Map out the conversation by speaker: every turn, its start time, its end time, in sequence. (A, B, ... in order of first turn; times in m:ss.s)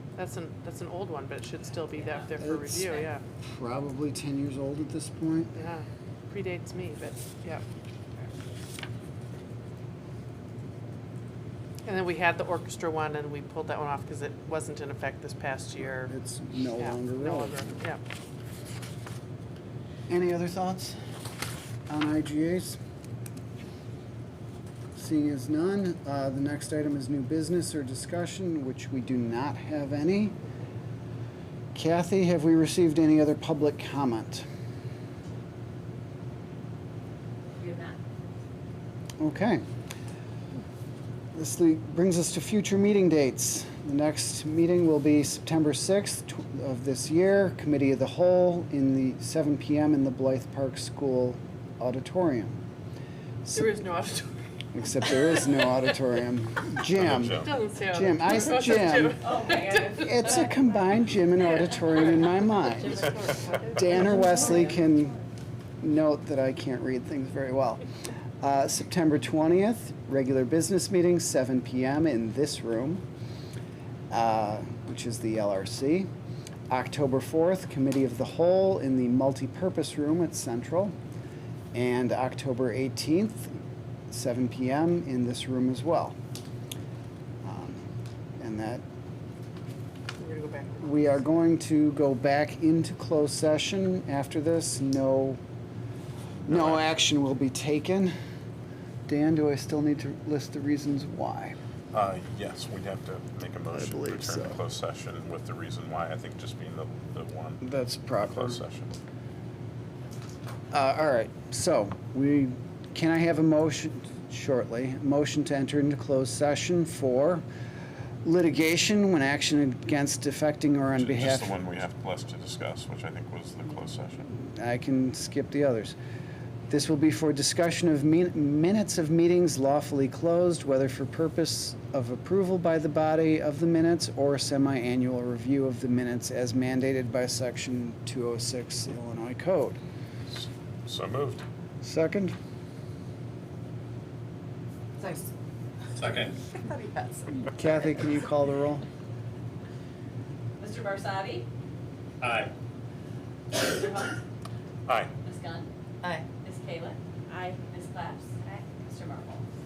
0:00.2-0:03.2 A
0:02.0-0:02.3 B
0:02.4-0:02.8 C
0:02.8-0:03.0 B
0:03.4-0:05.5 C
0:05.5-0:07.6 A
0:11.8-0:16.1 A
0:16.0-0:17.7 C
0:16.8-0:18.0 A
0:20.1-0:21.0 C
0:21.9-0:22.8 C
0:24.9-0:30.4 C
0:31.7-0:34.4 C
0:37.5-0:38.0 B
0:39.2-0:39.6 C
0:41.3-0:52.6 C
0:53.5-0:54.4 A
0:54.7-0:59.2 C
0:55.1-0:55.5 A
0:56.9-0:57.5 D
0:57.4-1:00.0 A
0:59.2-1:00.5 B
0:59.9-1:03.2 C
1:02.6-1:05.1 B
1:02.8-1:04.6 A
1:03.8-1:05.2 C
1:05.8-1:07.8 C
1:08.4-1:13.0 C
1:14.1-1:16.1 C
1:16.7-1:20.9 C
1:21.7-1:23.5 C
1:24.1-1:26.2 C
1:27.4-1:27.8 C
1:28.4-1:28.8 C
1:30.2-1:31.2 A
1:30.8-1:35.4 C
1:36.4-1:36.8 D
1:36.5-1:38.1 C
1:39.1-1:41.6 C
1:41.9-1:47.6 D
1:43.7-1:44.6 C
1:47.6-1:48.6 C
1:48.2-1:49.0 D
1:50.7-1:57.4 C
1:58.2-2:01.5 C
2:01.0-2:04.3 D
2:04.4-2:06.0 C
2:06.7-2:19.8 C
2:20.3-2:21.4 D
2:21.8-2:22.3 C
2:26.0-2:26.3 D
2:26.6-2:27.1 A
2:27.5-2:28.8 C
2:30.6-2:31.5 B
2:32.2-2:32.5 D
2:33.5-2:34.2 B
2:34.9-2:35.1 D
2:35.2-2:35.7 B
2:36.2-2:39.4 B